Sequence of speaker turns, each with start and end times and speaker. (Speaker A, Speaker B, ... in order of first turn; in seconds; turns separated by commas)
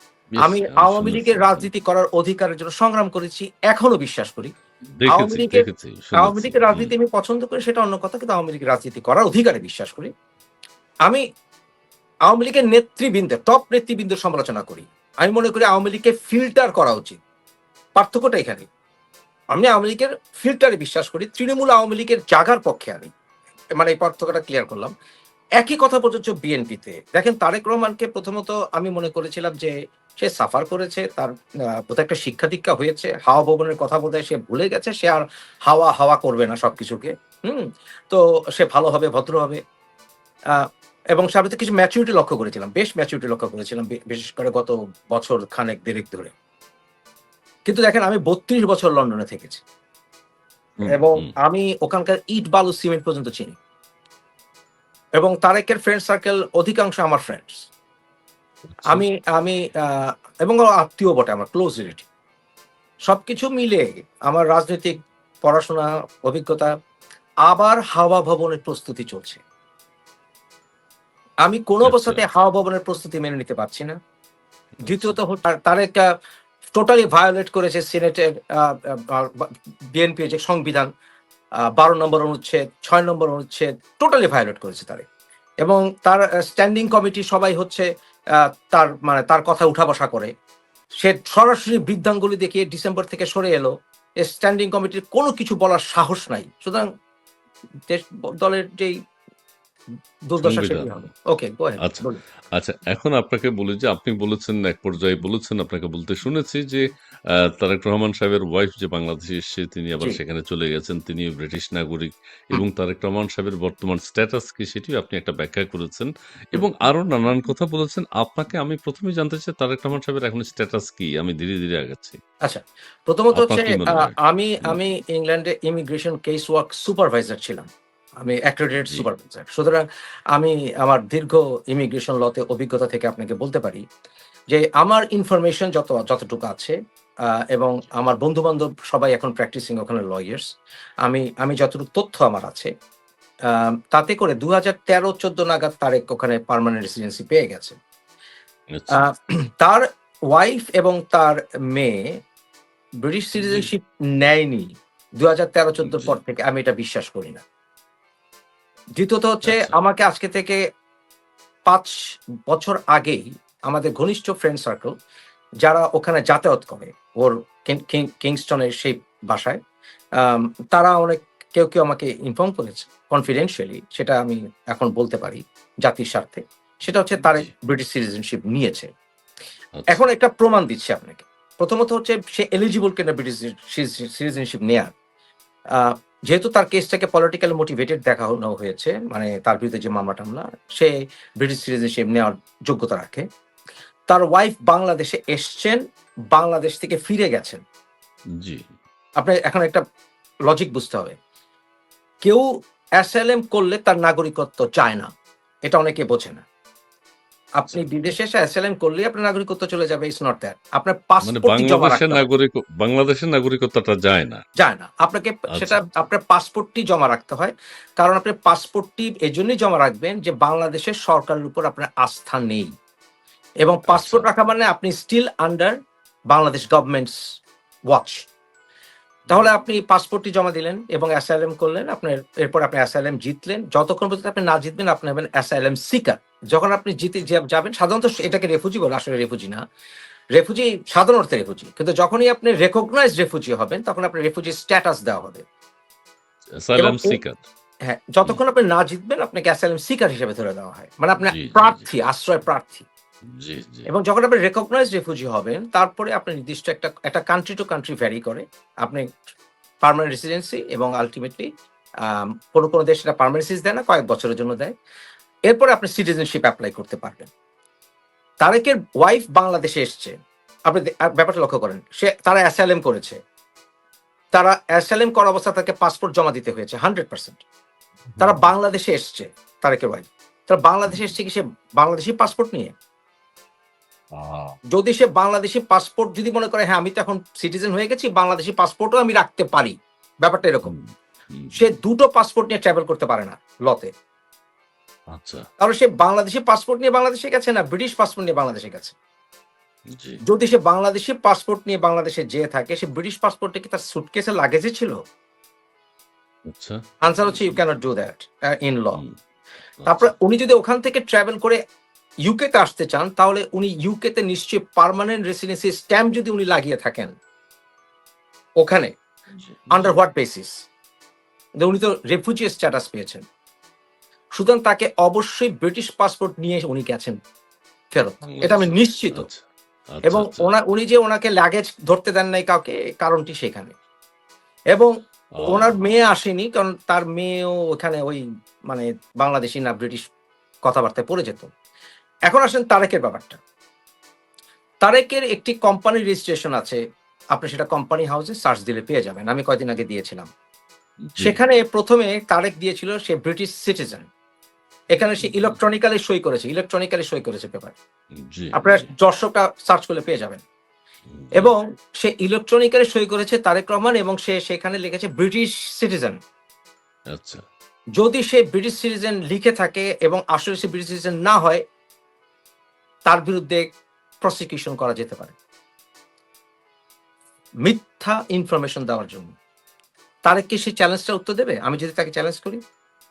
Speaker A: 0.3-1.7, Speaker B: 0.4-4.5, Speaker A: 5.0-6.9, Speaker B: 5.1-5.7, Speaker B: 6.2-10.1, Speaker B: 12.3-17.2, Speaker B: 18.0-18.7, Speaker B: 19.5-23.1, Speaker B: 23.8-24.9, Speaker B: 25.6-31.3, Speaker B: 31.9-39.6, Speaker B: 41.1-46.3, Speaker B: 47.7-49.6, Speaker A: 50.8-51.3, Speaker B: 50.9-53.6, Speaker B: 55.2-57.7, Speaker A: 58.8-59.0, Speaker B: 58.9-62.1, Speaker B: 63.1-66.7, Speaker B: 67.5-69.4, Speaker B: 71.5-74.0, Speaker A: 71.8-72.2, Speaker A: 74.8-75.2, Speaker B: 74.8-76.0, Speaker B: 76.7-80.9, Speaker B: 81.8-85.0, Speaker B: 85.6-87.9, Speaker B: 88.7-90.3, Speaker B: 91.0-96.8, Speaker B: 97.9-99.0, Speaker B: 100.3-102.2, Speaker A: 100.4-100.9, Speaker A: 102.6-106.8, Speaker A: 107.3-122.2, Speaker B: 122.5-127.7, Speaker A: 123.3-124.8, Speaker B: 128.2-129.8, Speaker B: 130.3-133.8, Speaker B: 134.5-136.8, Speaker B: 137.5-140.5, Speaker B: 141.1-142.7, Speaker B: 143.5-147.8, Speaker A: 148.7-149.1, Speaker B: 148.9-152.1, Speaker B: 153.0-157.4, Speaker A: 153.4-153.7, Speaker A: 155.8-156.1, Speaker B: 159.0-160.6, Speaker A: 159.4-159.8, Speaker B: 161.7-162.0, Speaker B: 162.5-164.9, Speaker B: 165.6-169.6, Speaker B: 170.2-178.9, Speaker A: 177.2-177.5, Speaker B: 179.9-184.9, Speaker B: 185.8-193.2, Speaker B: 194.1-195.8, Speaker B: 196.3-197.6, Speaker A: 198.4-198.7, Speaker B: 199.2-199.8, Speaker B: 200.5-201.2, Speaker B: 203.0-205.1, Speaker B: 205.7-206.4, Speaker B: 207.6-212.3, Speaker A: 211.2-214.4, Speaker B: 214.6-222.7, Speaker A: 215.5-215.8, Speaker B: 223.6-225.8, Speaker A: 223.9-224.3, Speaker B: 226.3-227.2, Speaker B: 227.9-228.3, Speaker B: 229.3-239.6, Speaker B: 240.4-245.4, Speaker A: 246.6-247.4, Speaker B: 246.8-247.2, Speaker B: 247.9-252.9, Speaker A: 251.3-251.8, Speaker A: 253.4-253.9, Speaker B: 253.9-259.1, Speaker B: 259.8-261.5, Speaker B: 262.1-264.7, Speaker B: 265.5-267.3, Speaker B: 268.4-270.1, Speaker B: 270.7-273.2, Speaker B: 274.3-277.4, Speaker A: 278.1-278.5, Speaker B: 278.2-282.7, Speaker A: 284.1-284.6, Speaker B: 284.7-290.7, Speaker A: 290.7-291.6, Speaker B: 291.5-293.9, Speaker A: 295.1-295.4, Speaker B: 295.6-299.0, Speaker A: 299.9-300.2, Speaker B: 300.3-305.0, Speaker A: 306.5-307.6, Speaker B: 307.0-309.0, Speaker A: 309.8-310.1, Speaker B: 309.9-311.6, Speaker B: 312.3-317.1, Speaker B: 318.6-318.9, Speaker A: 319.4-320.0, Speaker B: 319.7-320.5, Speaker B: 321.6-323.2, Speaker B: 324.4-327.2, Speaker B: 327.9-329.3, Speaker A: 328.2-330.5, Speaker B: 330.1-333.7, Speaker A: 335.4-335.8, Speaker B: 335.4-340.0, Speaker B: 340.7-341.5, Speaker B: 342.3-343.4, Speaker B: 344.8-346.8, Speaker B: 347.4-350.3, Speaker A: 351.1-351.4, Speaker B: 351.2-354.1, Speaker B: 354.9-357.8, Speaker A: 355.2-355.6, Speaker A: 358.2-358.9, Speaker B: 358.6-360.4, Speaker A: 361.1-361.5, Speaker B: 361.4-366.2, Speaker A: 367.1-367.4, Speaker B: 368.0-371.6, Speaker B: 373.1-373.7, Speaker B: 374.2-375.4, Speaker B: 377.7-379.3, Speaker B: 380.3-382.6